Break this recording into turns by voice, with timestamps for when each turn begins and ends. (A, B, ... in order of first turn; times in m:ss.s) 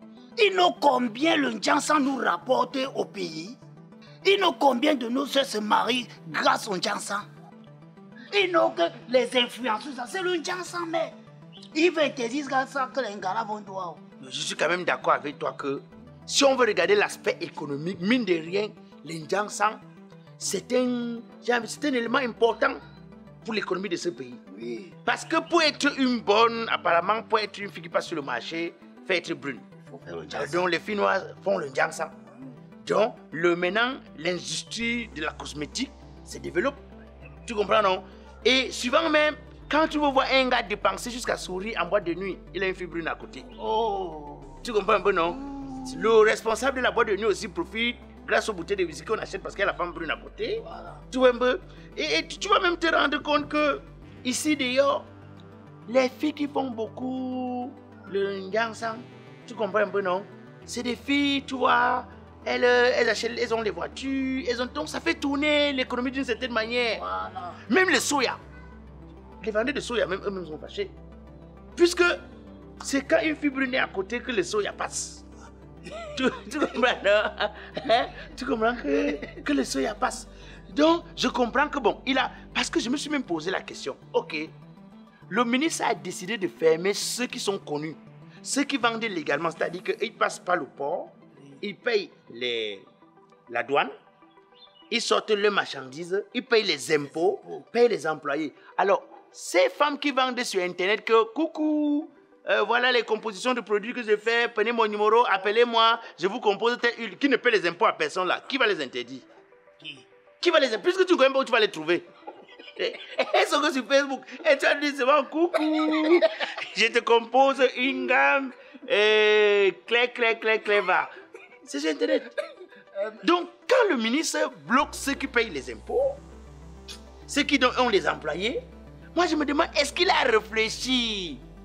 0:00.4-0:03.6 A
0:04.2-0:07.2 A
0:08.3-0:11.1 A
0:11.7-0:14.0 A
0:14.2-0:19.8 B
0:20.4-0:22.8 B
0:23.4-0:24.4 B
0:24.6-0:24.9 A
0:25.0-0:29.6 B
0:29.9-0:30.6 A
0:30.3-0:32.1 B
0:32.8-0:36.8 B
0:37.4-0:43.5 B
0:43.6-0:44.6 A
0:44.6-0:55.0 B
0:45.5-0:46.0 A
0:55.8-1:07.0 B
1:06.9-1:07.6 A
1:07.6-1:08.4 B
1:09.4-1:10.9 B
1:11.7-1:12.2 B
1:12.8-1:15.2 B
1:16.1-1:24.5 B
1:25.3-1:32.8 B
1:33.5-1:33.9 B
1:34.9-1:49.2 B
1:50.4-1:52.0 B
1:52.7-2:01.1 B
2:01.6-2:02.3 B
2:03.1-2:06.2 B
2:07.2-2:08.6 B
2:09.1-2:11.4 B